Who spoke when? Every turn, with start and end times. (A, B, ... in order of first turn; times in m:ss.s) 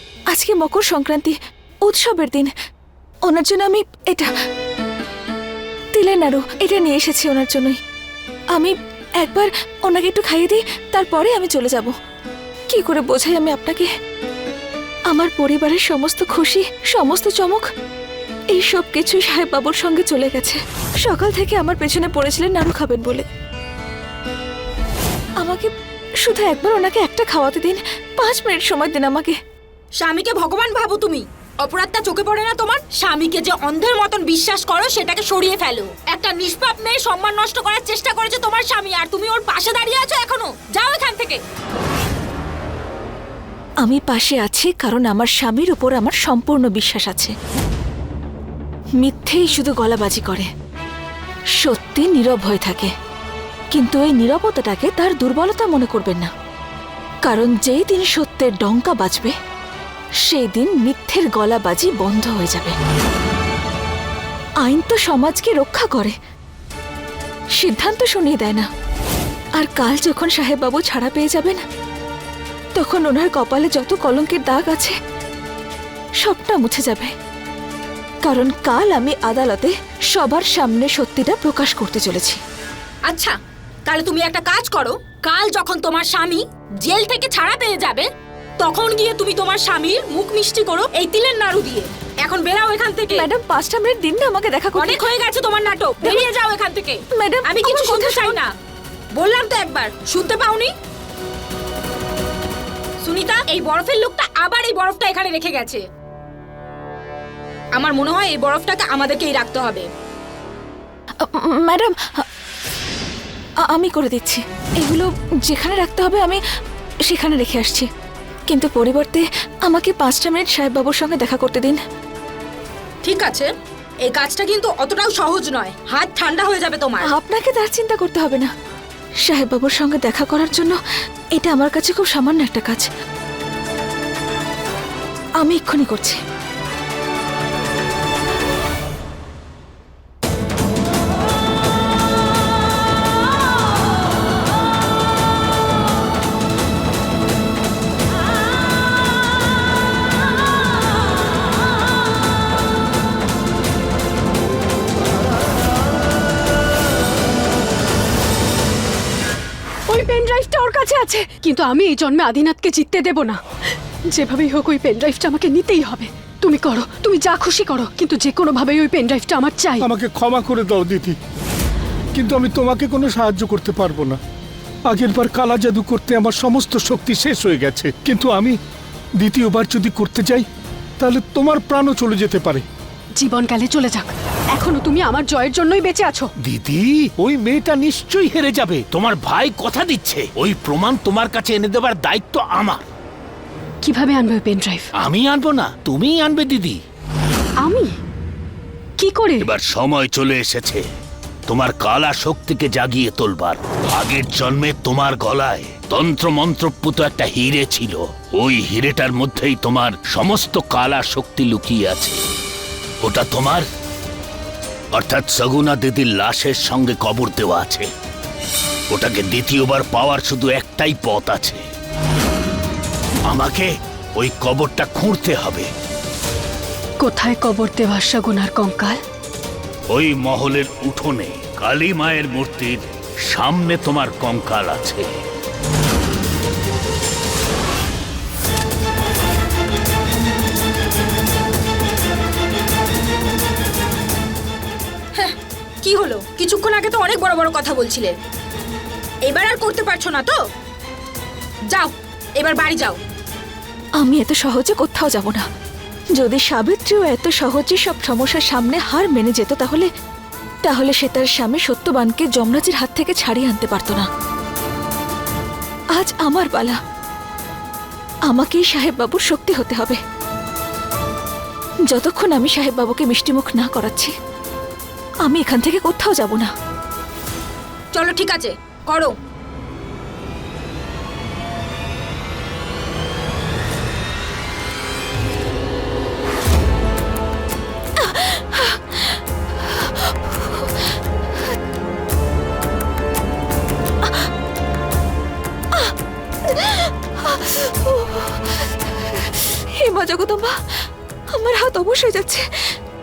0:00.3-0:02.5 A
0:03.3-0:04.3 A
0:05.9-0:07.8 A
0:08.5-0:11.9 A
0:12.7-0:13.9 A
0:15.1-0:17.6 A
0:18.5-0:23.3 A
0:25.4-0:25.7 A
0:26.2-0:29.4 A
0:30.0-0:41.4 B
0:43.8-0:47.3 A
0:49.0-0:50.5 A
0:51.6-0:52.9 A
0:53.7-0:56.3 A
0:57.2-0:59.4 A
1:00.3-1:02.8 A
1:04.6-1:06.2 A
1:07.6-1:08.7 A
1:09.6-1:11.6 A
1:12.8-1:15.0 A
1:16.2-1:17.1 A
1:18.2-1:22.4 A
1:23.1-1:23.3 B
1:23.9-1:28.1 B
1:28.6-1:33.3 B
1:33.2-1:35.1 A
1:34.8-1:38.5 B
1:36.0-1:36.3 A
1:37.2-1:38.4 A
1:39.2-1:40.7 B
1:43.0-1:45.8 B
1:47.8-1:49.9 B
1:51.2-1:52.2 A
1:53.7-1:56.4 A
1:57.1-1:57.9 A
1:58.5-2:01.8 A
2:03.0-2:03.5 B
2:04.0-2:07.1 B
2:07.1-2:08.5 A
2:09.3-2:10.8 A
2:11.4-2:12.9 A
2:15.4-2:16.2 A
2:39.9-2:43.4 C
2:44.1-2:49.9 C
2:49.8-2:51.2 D
2:52.1-2:54.2 D
2:54.9-2:58.6 D
2:59.2-3:00.5 D
3:01.0-3:02.6 D
3:03.2-3:06.3 C
3:06.5-3:07.0 E
3:07.1-3:08.9 D
3:08.5-3:12.8 E
3:13.8-3:14.9 C
3:15.0-3:16.8 E
3:17.6-3:17.9 C
3:19.0-3:19.5 C
3:19.4-3:20.8 E
3:21.5-3:32.2 E
3:33.0-3:33.7 E
3:34.9-3:37.9 E
3:38.9-3:41.6 E
3:43.3-3:45.7 E
3:47.0-3:49.0 C
3:49.9-3:55.1 E
4:05.2-4:08.2 B
4:09.3-4:10.4 B
4:11.7-4:13.0 B
4:14.0-4:15.4 A
4:16.2-4:19.9 A
4:20.6-4:24.1 A
4:26.0-4:26.8 A
4:28.3-4:30.0 A
4:31.9-4:34.1 A
4:35.2-4:36.5 A
4:37.9-4:39.1 B
4:48.0-4:49.1 A
4:49.7-4:50.6 A
4:56.5-5:00.6 A
5:01.3-5:02.5 A